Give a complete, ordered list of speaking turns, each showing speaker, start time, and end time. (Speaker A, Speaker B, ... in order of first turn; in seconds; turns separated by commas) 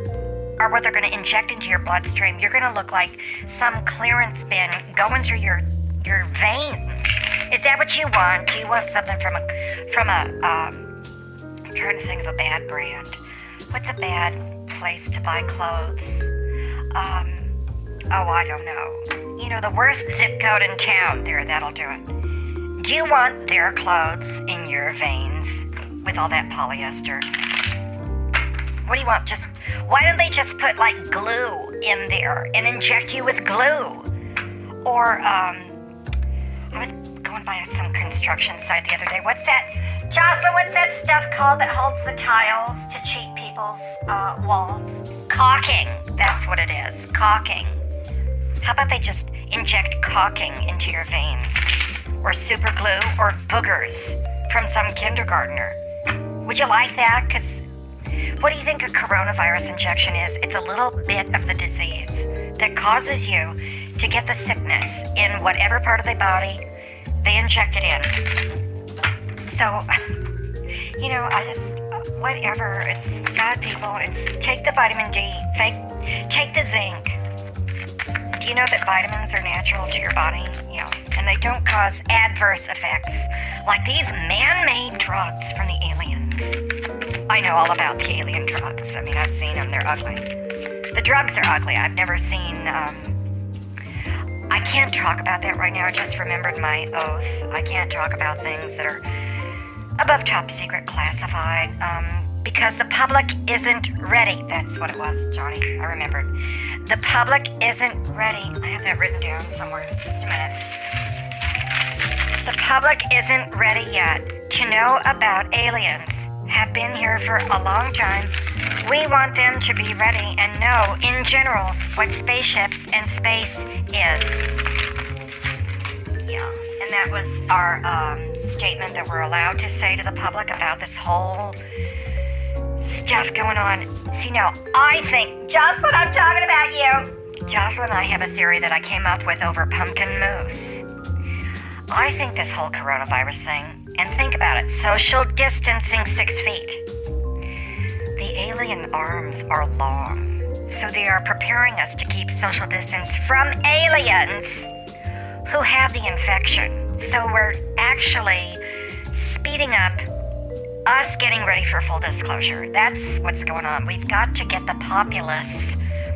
Speaker A: 0.6-10.9, Speaker A: 11.7-13.2, Speaker A: 13.7-16.3, Speaker A: 16.9-17.5, Speaker A: 18.1-22.1, Speaker A: 22.8-27.3, Speaker A: 28.8-34.1, Speaker A: 34.8-35.8, Speaker A: 36.7-47.8, Speaker A: 48.6-55.8, Speaker A: 56.4-57.6, Speaker A: 58.4-66.6, Speaker A: 67.2-68.2, Speaker A: 69.4-70.1, Speaker A: 71.0-77.2, Speaker A: 78.3-86.6, Speaker A: 87.3-90.3, Speaker A: 90.9-93.2, Speaker A: 94.5-99.0, Speaker A: 100.0-110.7, Speaker A: 112.4-124.5, Speaker A: 126.2-131.6, Speaker A: 132.8-140.8, Speaker A: 141.9-146.8, Speaker A: 148.2-154.7, Speaker A: 155.4-160.1, Speaker A: 160.8-165.8